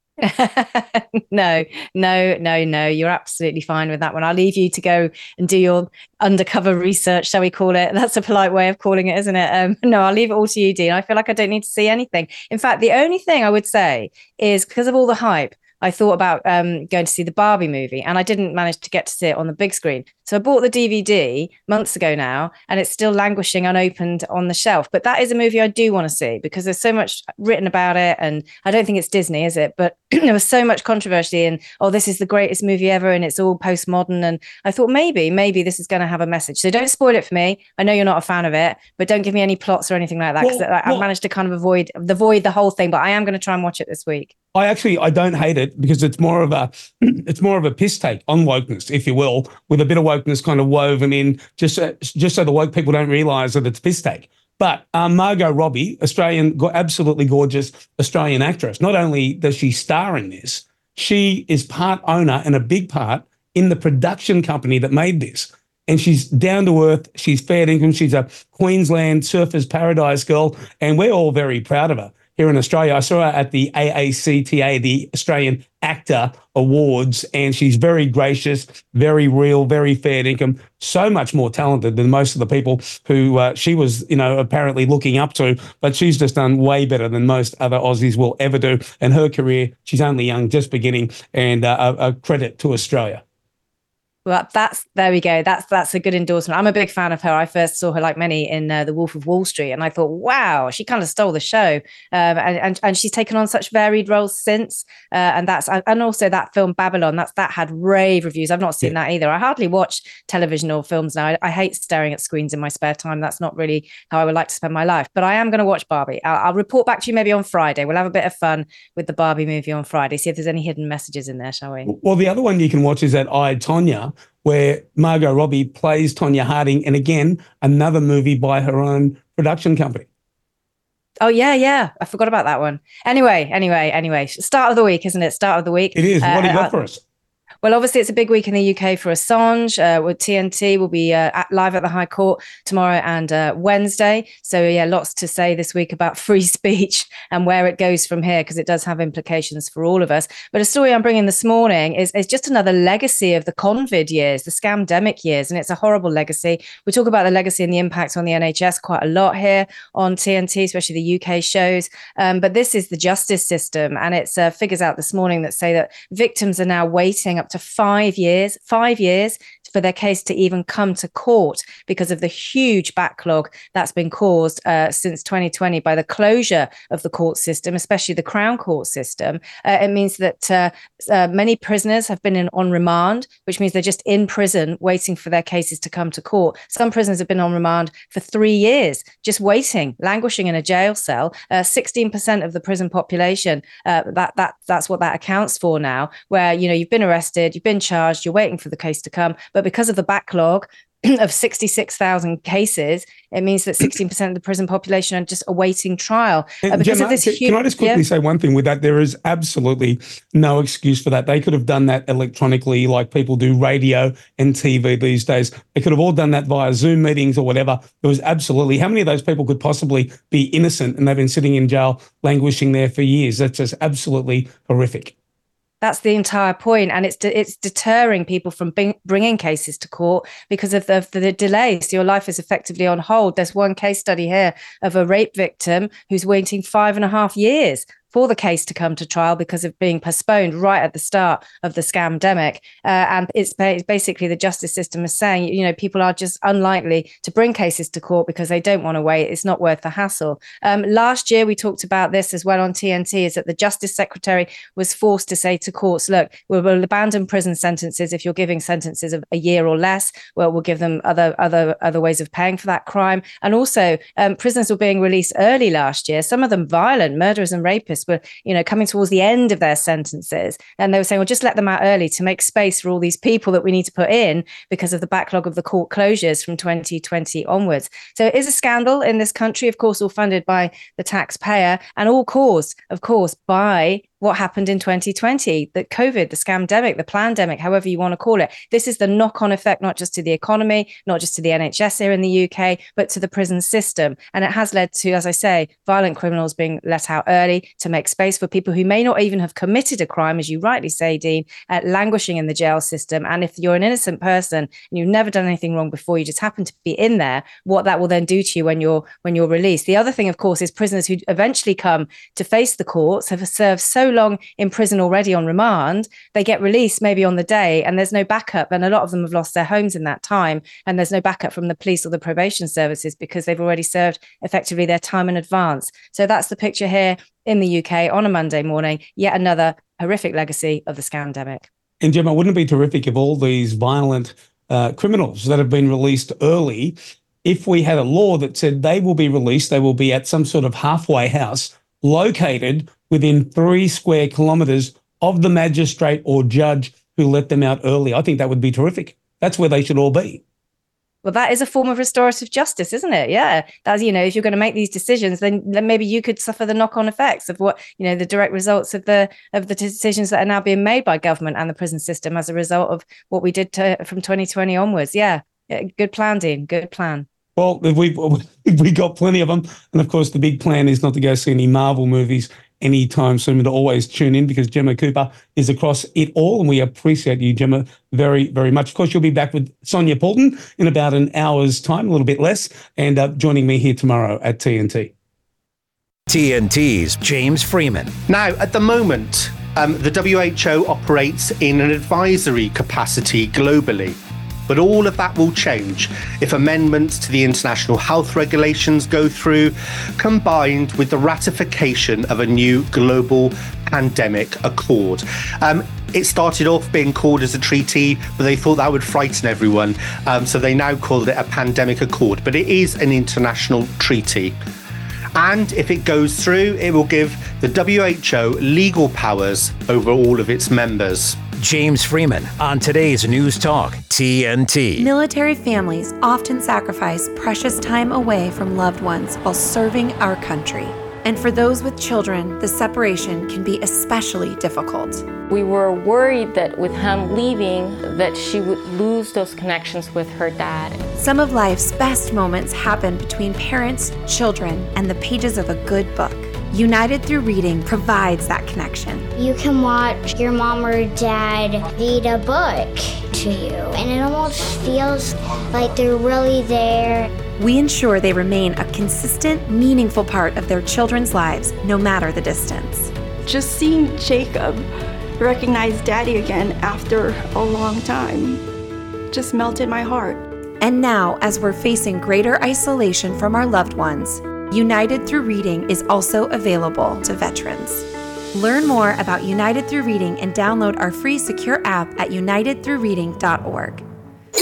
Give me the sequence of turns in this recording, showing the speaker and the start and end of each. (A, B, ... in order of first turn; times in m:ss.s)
0:00.2-0:44.3 A
0:40.4-0:41.1 B
0:44.6-1:33.2 B
1:34.3-2:01.9 A
2:01.9-2:10.1 B
2:11.2-2:16.7 A
2:16.0-2:17.0 B
2:17.6-3:28.0 A
3:26.6-3:45.1 B
3:45.8-5:31.7 A
5:32.0-5:50.4 B
5:51.2-6:07.2 A
6:07.6-6:25.1 B
6:26.3-6:28.1 C
6:28.3-6:34.2 D
6:34.7-6:54.6 D
6:55.4-7:01.4 D
7:01.6-7:05.1 C
7:05.0-7:15.3 E
7:15.5-7:21.1 F
7:21.2-7:29.3 E
7:29.4-7:37.3 G
7:37.6-7:43.1 E
7:43.5-7:44.9 H
7:45.4-7:48.6 H
7:49.3-7:50.4 H
7:50.8-8:04.0 E